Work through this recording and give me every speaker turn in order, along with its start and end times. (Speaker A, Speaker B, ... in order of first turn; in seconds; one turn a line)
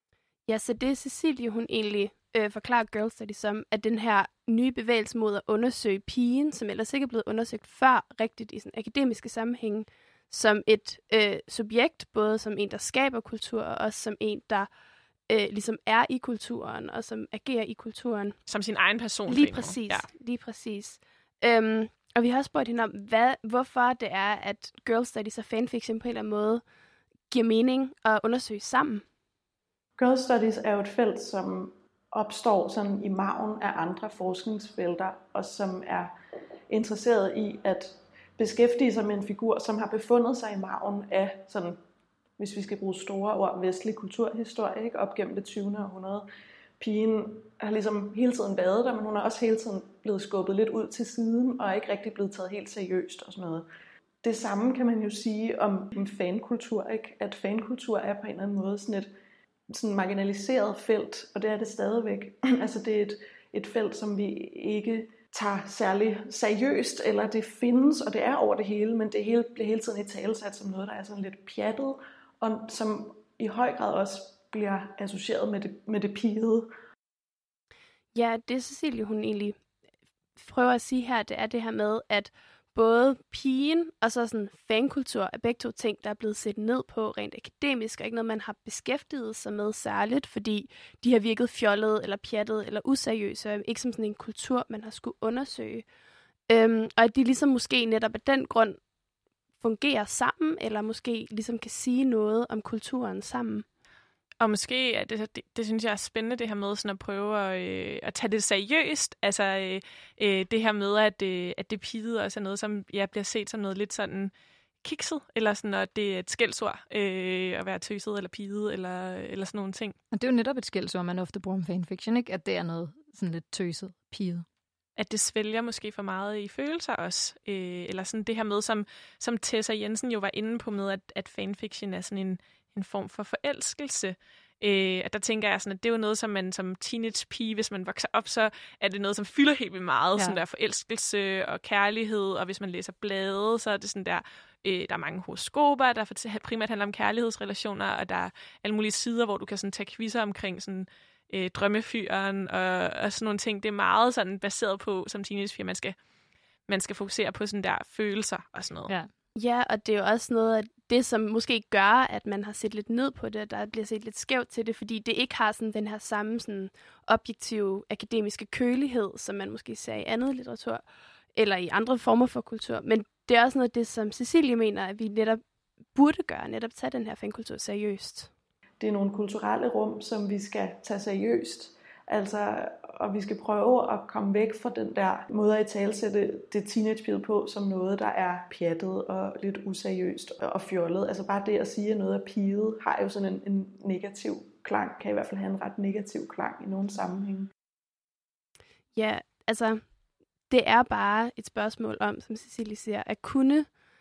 Speaker A: 0.5-14.7
Speaker A: 15.3-18.4
Speaker B: 18.5-20.1
Speaker A: 19.3-26.6
Speaker A: 27.3-29.0
Speaker C: 30.0-36.1
Speaker C: 36.7-41.8
Speaker C: 42.4-46.3
Speaker C: 46.8-53.7
Speaker C: 54.2-59.1
Speaker C: 59.7-76.7
Speaker A: 78.1-79.6
Speaker A: 80.4-95.8
Speaker A: 96.5-98.8
Speaker A: 99.6-103.7
Speaker B: 104.4-114.3
Speaker B: 114.8-120.0
Speaker D: 120.1-124.5
Speaker B: 125.0-155.9
Speaker B: 156.7-158.9
Speaker A: 159.3-170.8
Speaker A: 171.3-175.4
Speaker A: 175.9-178.3
Speaker C: 178.8-197.5
Speaker A: 198.9-199.8
Speaker A: 200.5-203.7